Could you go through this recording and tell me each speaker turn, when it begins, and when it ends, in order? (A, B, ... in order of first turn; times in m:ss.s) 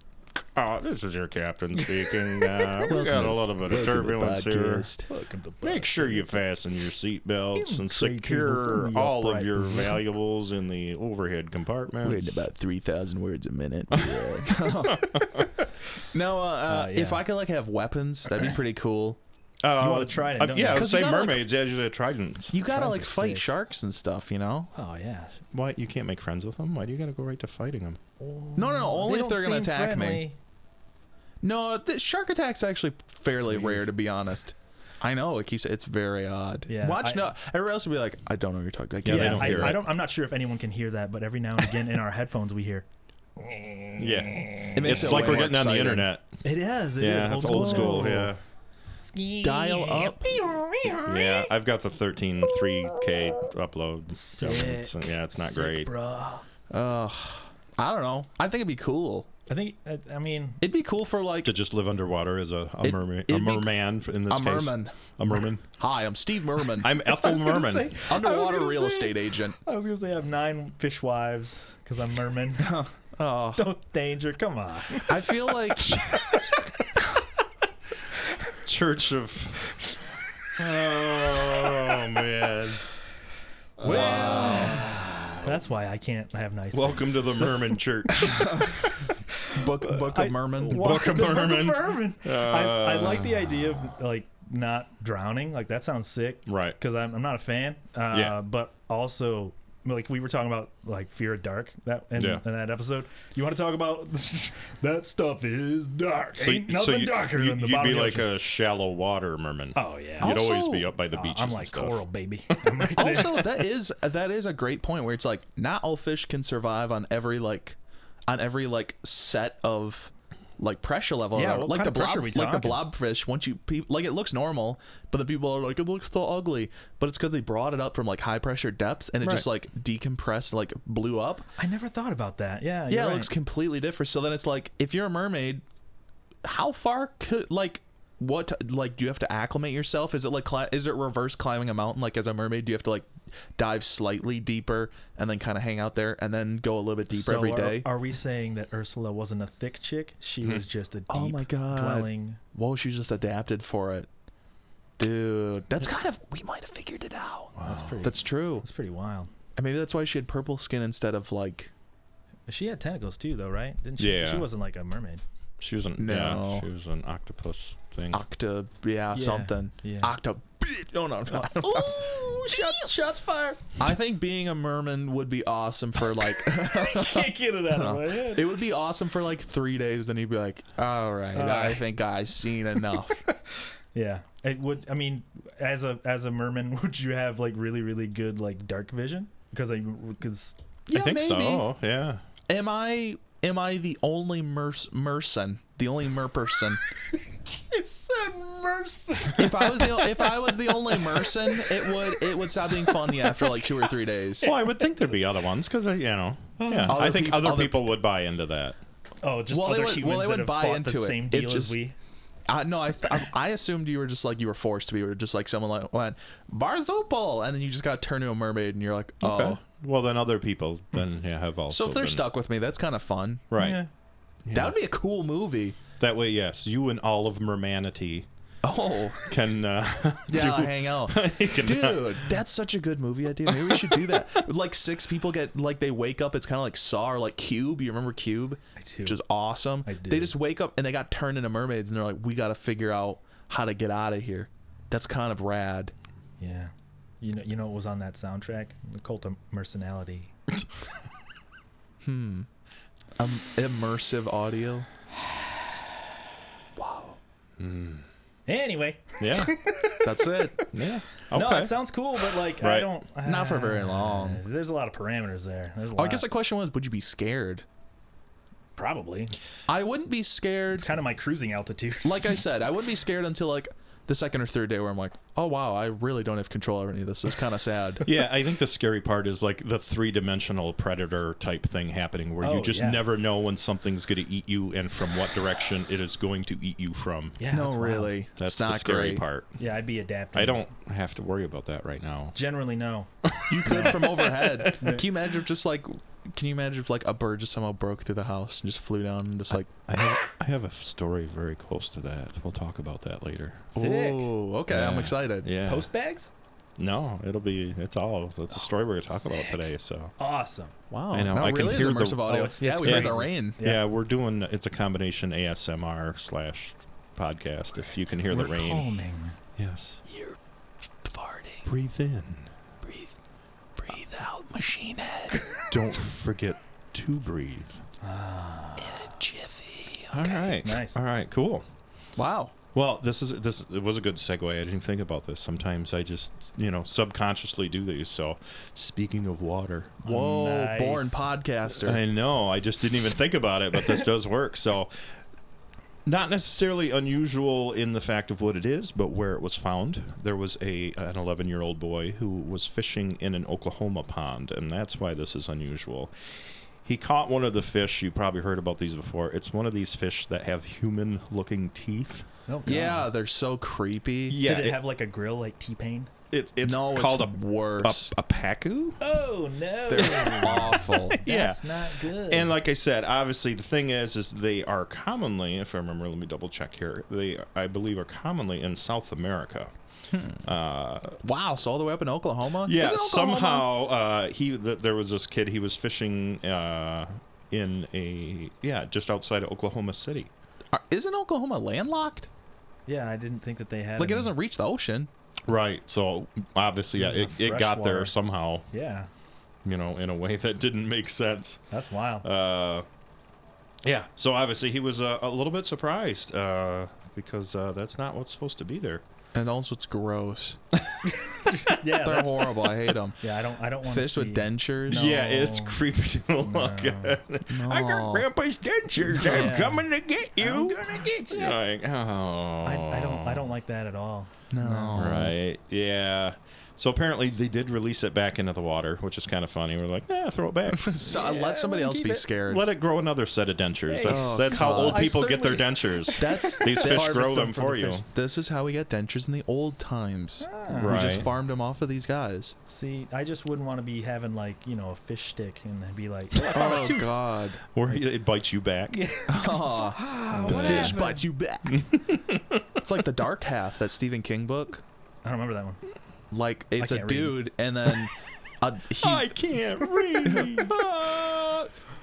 0:00.6-0:04.9 A
0:02.1-0:02.9 B
0:02.9-0:05.1 C
0:05.1-0:06.4 B
0:05.6-0:12.5 A
0:07.6-0:10.0 B
0:12.0-0:15.2 C
0:13.9-0:15.6 A
0:16.1-0:19.2 C
0:16.7-0:17.3 B
0:19.6-0:22.6 A
0:19.8-0:20.9 B
0:20.7-0:21.5 C
0:22.5-0:24.7 C
0:22.6-0:23.4 B
0:24.7-0:25.4 B
0:25.5-0:28.0 A
0:28.2-0:30.4 B
0:28.6-0:30.2 C
0:31.4-0:39.8 C
0:33.5-0:33.8 B
0:36.7-0:37.3 B
0:39.0-0:39.8 A
0:39.1-0:42.9 B
0:43.4-0:45.5 B
0:44.0-0:46.4 A
0:44.8-0:46.1 C
0:46.4-0:48.3 B
0:47.0-0:48.4 A
0:47.2-0:48.3 C
0:49.0-0:51.5 B
0:49.4-0:50.4 C
0:51.1-0:55.9 A
0:52.6-0:53.3 B
0:54.1-0:56.4 B
0:56.7-0:59.3 C
0:59.5-1:00.6 B
1:00.6-1:01.5 C
1:01.4-1:05.7 A
1:02.8-1:03.7 C
1:04.3-1:06.9 C
1:06.8-1:08.0 A
1:07.0-1:12.9 B
1:08.1-1:09.6 C
1:12.6-1:13.7 C
1:13.6-1:15.4 B
1:15.1-1:16.0 C
1:15.8-1:16.7 A
1:18.6-1:19.7 A
1:20.5-1:22.8 A
1:23.8-1:25.5 A
1:23.8-1:24.9 C
1:23.8-1:28.2 B
1:26.7-1:28.8 A
1:28.3-1:28.7 C
1:28.8-1:48.3 B
1:29.5-1:31.0 C
1:30.7-1:33.6 A
1:36.5-1:36.8 A
1:38.1-1:38.4 A
1:42.2-1:42.4 A
1:46.4-1:52.0 A
1:49.8-1:50.4 B
1:50.2-1:51.0 C
1:51.1-1:53.6 B
1:53.0-2:11.5 C
2:01.3-2:02.8 B
2:11.6-2:13.3 B
2:12.9-2:15.6 C
2:16.4-2:27.9 C
2:27.1-2:32.4 B
2:31.1-2:34.1 C
2:35.0-2:38.7 C
2:37.6-2:38.0 A
2:37.6-2:39.3 B
2:39.6-2:41.7 C
2:42.5-2:45.2 B
2:44.0-2:44.5 A
2:45.6-2:48.2 A
2:46.0-2:46.7 C
2:48.1-2:52.9 C
2:49.1-2:50.1 B
2:51.3-2:53.7 B
2:53.8-3:03.2 C
2:56.4-2:58.5 B
3:01.3-3:01.9 B
3:03.1-3:10.6 B
3:10.9-3:11.7 C
3:10.9-3:12.2 A
3:12.5-3:16.8 C
3:17.7-3:22.2 B
3:19.3-3:24.5 C
3:22.8-3:23.7 B
3:24.4-3:24.8 B
3:24.4-3:28.8 A
3:26.6-3:27.0 B
3:26.8-3:27.8 C
3:29.2-3:32.0 B
3:29.5-3:31.8 C
3:32.5-3:39.6 C
3:39.2-3:42.2 A
3:41.7-3:43.4 C
3:43.5-3:43.8 A
3:43.6-3:43.9 B
3:44.4-3:44.8 A
3:44.5-3:45.8 C
3:46.0-3:48.3 A
3:48.6-3:49.2 C
3:49.2-3:52.3 A
3:50.3-4:05.9 C
3:53.5-3:54.4 A
3:58.8-3:59.2 B
3:59.8-4:00.4 B
4:06.4-4:10.3 B
4:12.0-4:12.5 C
4:13.2-4:14.9 C
4:16.8-4:17.2 C
4:17.6-4:18.0 A
4:18.5-4:26.3 B
4:19.2-4:19.6 A
4:20.0-4:20.6 C
4:20.7-4:21.8 A
4:22.6-4:22.9 A
4:23.2-4:24.4 C
4:26.0-4:27.6 C
4:28.8-4:29.3 B
4:29.7-4:30.9 C
4:30.8-4:32.4 B
4:32.0-4:38.1 C
4:38.0-4:47.4 A
4:42.4-4:43.0 B
4:47.4-4:48.1 B
4:47.5-4:49.2 C
4:48.4-4:49.6 A
4:49.6-4:50.6 B
4:50.3-4:52.4 A
4:52.4-4:53.1 B
4:53.2-4:54.8 A
4:53.5-4:59.7 C
4:53.6-4:55.1 B
4:59.5-5:03.7 A
5:03.7-5:04.3 B
5:03.8-5:05.6 C
5:04.7-5:05.9 A
5:05.6-5:06.3 B
5:06.8-5:10.1 A
5:09.2-5:09.7 B
5:10.2-5:10.8 B
5:10.9-5:13.6 C
5:11.1-5:19.0 A
5:12.2-5:13.8 B
5:18.3-5:19.4 B
5:19.6-5:20.0 A
5:20.1-5:20.4 C
5:21.0-5:21.7 C
5:21.6-5:22.5 A
5:22.8-5:23.1 C
5:23.8-5:25.4 C
5:25.7-5:27.8 A
5:28.0-5:29.2 B
5:28.8-5:30.6 C
5:30.1-5:31.6 A
5:30.6-5:31.0 B
5:32.2-5:32.5 C
5:32.7-5:40.0 A
5:40.0-5:41.4 B
5:40.0-5:42.0 C
5:41.8-5:44.9 A
5:46.1-5:56.1 A
5:56.8-6:02.3 A
6:02.5-6:03.1 B
6:02.7-6:04.4 C
6:04.3-6:04.8 A
6:04.4-6:06.1 B
6:06.3-6:09.0 A
6:06.6-6:08.1 C
6:09.0-6:12.5 B
6:09.9-6:11.2 C
6:10.0-6:19.7 A
6:20.1-6:20.4 C
6:20.4-6:21.2 A
6:21.2-6:23.7 C
6:22.6-6:30.3 A
6:30.7-6:32.3 C
6:32.9-6:34.4 B
6:34.0-6:35.1 C
6:35.5-6:38.7 A
6:37.0-6:38.1 B
6:38.7-6:39.1 B
6:39.6-6:41.6 A
6:41.7-6:42.2 B
6:42.2-6:42.9 A
6:43.8-6:49.0 A
6:49.3-6:50.6 C
6:51.1-6:52.6 B
6:51.8-6:53.2 C
6:53.2-6:55.8 B
6:53.8-6:55.2 C
6:54.9-7:03.5 A
6:56.4-6:57.2 B
6:57.5-6:58.3 C
6:59.0-6:59.8 C
7:00.4-7:01.6 B
7:02.6-7:05.2 B
7:04.5-7:05.4 C
7:05.0-7:11.2 A
7:10.7-7:12.7 C
7:11.0-7:12.2 B
7:12.5-7:18.1 A
7:13.9-7:18.0 B
7:14.0-7:15.2 C
7:16.2-7:22.6 C
7:20.4-7:21.1 B
7:20.8-7:21.3 A
7:22.7-7:27.2 B
7:26.4-7:27.6 C
7:27.7-7:29.0 A
7:28.9-7:31.2 B
7:29.3-7:32.0 C
7:30.4-7:31.0 A
7:31.7-7:32.6 A
7:32.8-7:34.8 C
7:35.2-7:35.8 B
7:36.3-7:39.4 C
7:36.8-7:37.5 B
7:39.0-7:40.8 A
7:40.1-7:41.7 C